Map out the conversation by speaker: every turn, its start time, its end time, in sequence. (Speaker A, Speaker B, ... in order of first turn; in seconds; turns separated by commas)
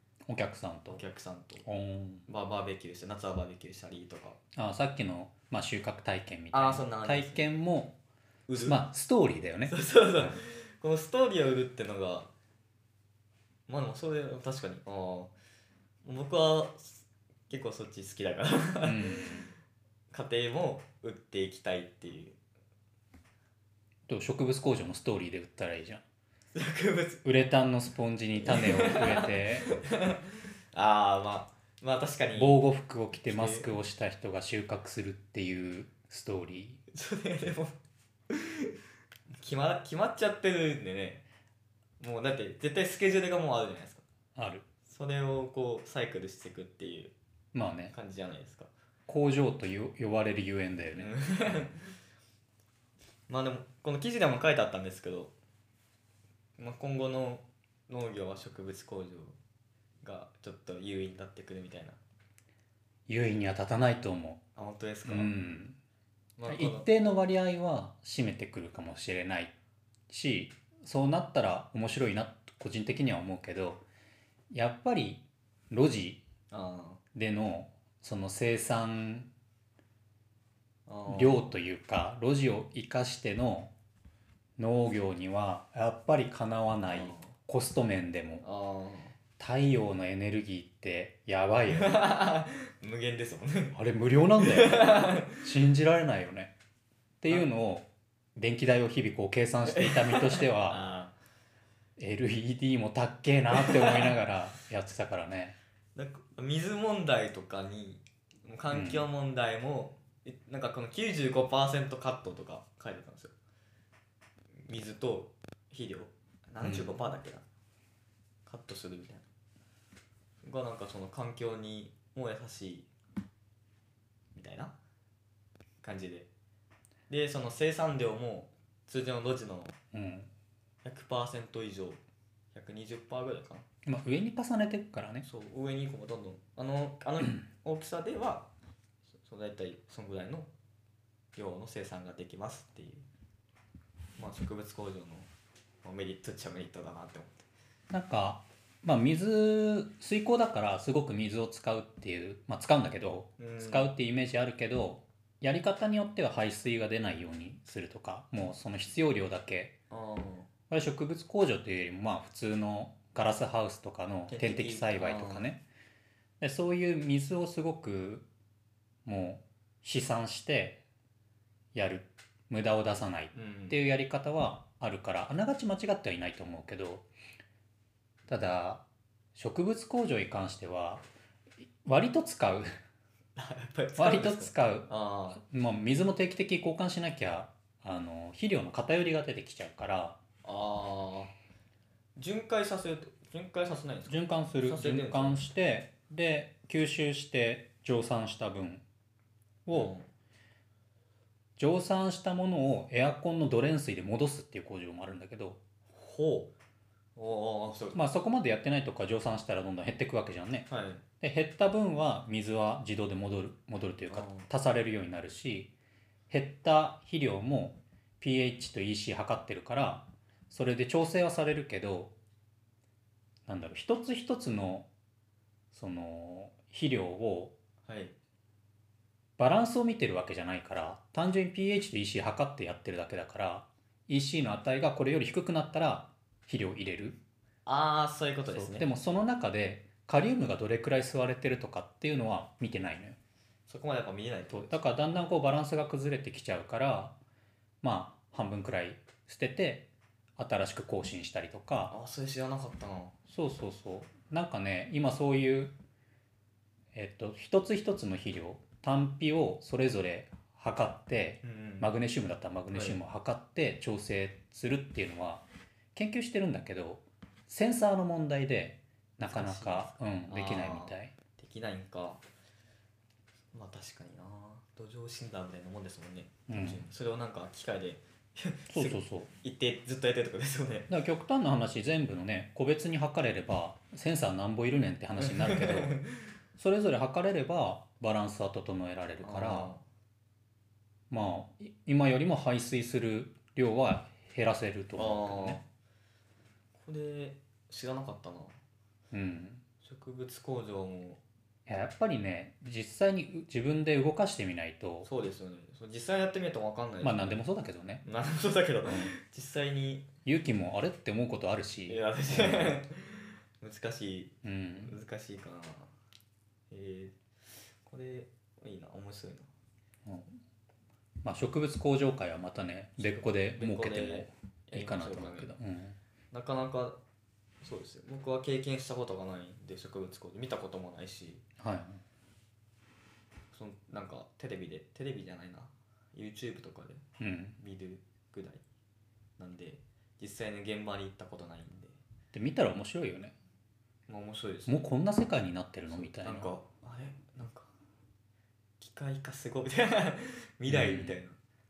Speaker A: 0.3-1.0, Speaker B: 0.9-1.6, Speaker A: 1.6-2.2, Speaker B: 2.3-4.4, Speaker A: 4.5-8.0, Speaker B: 6.5-7.4, Speaker B: 8.5-8.8, Speaker A: 8.6-10.4, Speaker B: 9.7-12.3, Speaker B: 13.7-15.3, Speaker B: 16.0-19.3, Speaker A: 18.8-19.5, Speaker B: 20.1-22.4, Speaker A: 24.1-26.0, Speaker B: 26.5-27.2, Speaker A: 27.2-29.7, Speaker B: 28.4-32.6, Speaker A: 32.4-36.8, Speaker B: 33.2-33.7, Speaker B: 36.9-37.8, Speaker B: 38.3-38.7, Speaker B: 39.4-41.2, Speaker B: 42.0-44.0, Speaker A: 44.4-44.6, Speaker B: 44.9-47.1, Speaker A: 47.5-47.9, Speaker B: 47.9-48.7, Speaker A: 49.1-51.6, Speaker B: 50.9-51.8, Speaker B: 53.3-55.3, Speaker B: 56.6-59.4, Speaker B: 60.0-62.0, Speaker A: 63.1-64.4, Speaker B: 64.5-65.3, Speaker A: 65.0-65.8, Speaker B: 66.4-66.9, Speaker A: 66.5-69.5, Speaker A: 70.1-73.8, Speaker A: 74.5-76.2, Speaker B: 76.5-77.0, Speaker A: 77.1-79.3, Speaker B: 80.9-81.5, Speaker A: 81.1-83.7, Speaker A: 84.6-88.4, Speaker B: 86.9-87.3, Speaker B: 88.4-89.1, Speaker A: 89.4-92.0, Speaker B: 91.7-93.8, Speaker A: 93.7-96.5, Speaker B: 94.4-95.5, Speaker A: 97.2-100.8, Speaker B: 99.7-101.1, Speaker A: 102.0-105.5, Speaker B: 103.5-104.2, Speaker B: 105.9-113.3, Speaker A: 108.7-109.0, Speaker B: 114.6-117.4, Speaker A: 116.6-116.9, Speaker B: 118.5-119.2, Speaker B: 120.4-122.9, Speaker B: 124.3-124.7, Speaker B: 125.8-126.3, Speaker B: 127.1-129.8, Speaker A: 129.9-130.3, Speaker B: 130.8-132.0, Speaker B: 132.5-133.6, Speaker A: 133.8-135.2, Speaker B: 135.2-138.5, Speaker B: 139.2-140.5, Speaker B: 141.3-143.0, Speaker B: 144.2-145.3, Speaker B: 145.8-147.4, Speaker A: 147.9-159.7, Speaker B: 153.4-153.9, Speaker B: 159.9-160.5, Speaker A: 160.7-165.6, Speaker B: 164.3-165.5, Speaker A: 166.4-168.2, Speaker A: 169.0-170.8, Speaker A: 171.7-177.1, Speaker B: 173.3-173.8, Speaker A: 178.3-178.8, Speaker A: 179.3-181.0, Speaker A: 181.8-182.7, Speaker B: 183.3-185.4, Speaker A: 184.0-190.2, Speaker B: 190.4-191.3, Speaker B: 192.2-195.4, Speaker A: 194.1-198.8, Speaker A: 199.7-199.9, Speaker B: 199.7-200.1, Speaker A: 201.6-205.6, Speaker B: 205.9-206.5, Speaker B: 207.2-208.0, Speaker A: 207.9-210.7, Speaker B: 210.7-211.0, Speaker A: 211.2-215.7, Speaker B: 214.1-214.5, Speaker A: 216.3-222.1, Speaker A: 223.5-224.9, Speaker A: 225.7-227.5, Speaker B: 227.9-228.2, Speaker A: 229.4-237.2, Speaker B: 237.7-238.9, Speaker A: 238.5-243.2, Speaker B: 243.7-244.8, Speaker A: 244.5-247.1, Speaker A: 247.8-251.9, Speaker B: 251.9-253.1, Speaker A: 253.3-255.7, Speaker A: 256.9-271.1, Speaker B: 261.4-261.9, Speaker B: 262.7-263.0, Speaker B: 269.2-272.2, Speaker B: 273.5-280.9, Speaker A: 276.5-276.8, Speaker A: 278.7-279.3, Speaker A: 280.9-286.0, Speaker B: 285.2-286.1, Speaker A: 286.6-289.7, Speaker B: 289.2-289.8, Speaker A: 291.1-295.6, Speaker B: 295.0-295.6, Speaker B: 296.7-298.6, Speaker A: 299.1-299.6, Speaker B: 299.8-301.2, Speaker A: 301.7-305.1, Speaker B: 305.0-307.4, Speaker A: 307.0-308.0, Speaker B: 308.0-310.1, Speaker A: 308.9-309.1, Speaker A: 310.2-312.8, Speaker B: 311.9-315.9, Speaker A: 314.4-314.9, Speaker B: 316.7-317.2, Speaker B: 317.8-319.5, Speaker A: 321.2-326.0, Speaker B: 323.0-325.5, Speaker B: 326.3-327.0, Speaker B: 327.6-331.4, Speaker A: 331.6-332.0, Speaker B: 333.5-337.0, Speaker A: 337.2-337.6, Speaker B: 337.6-338.6, Speaker B: 339.4-342.0, Speaker A: 342.3-343.3, Speaker B: 344.1-344.8, Speaker A: 344.7-346.5, Speaker B: 345.9-347.7, Speaker B: 348.8-351.4, Speaker A: 350.7-351.2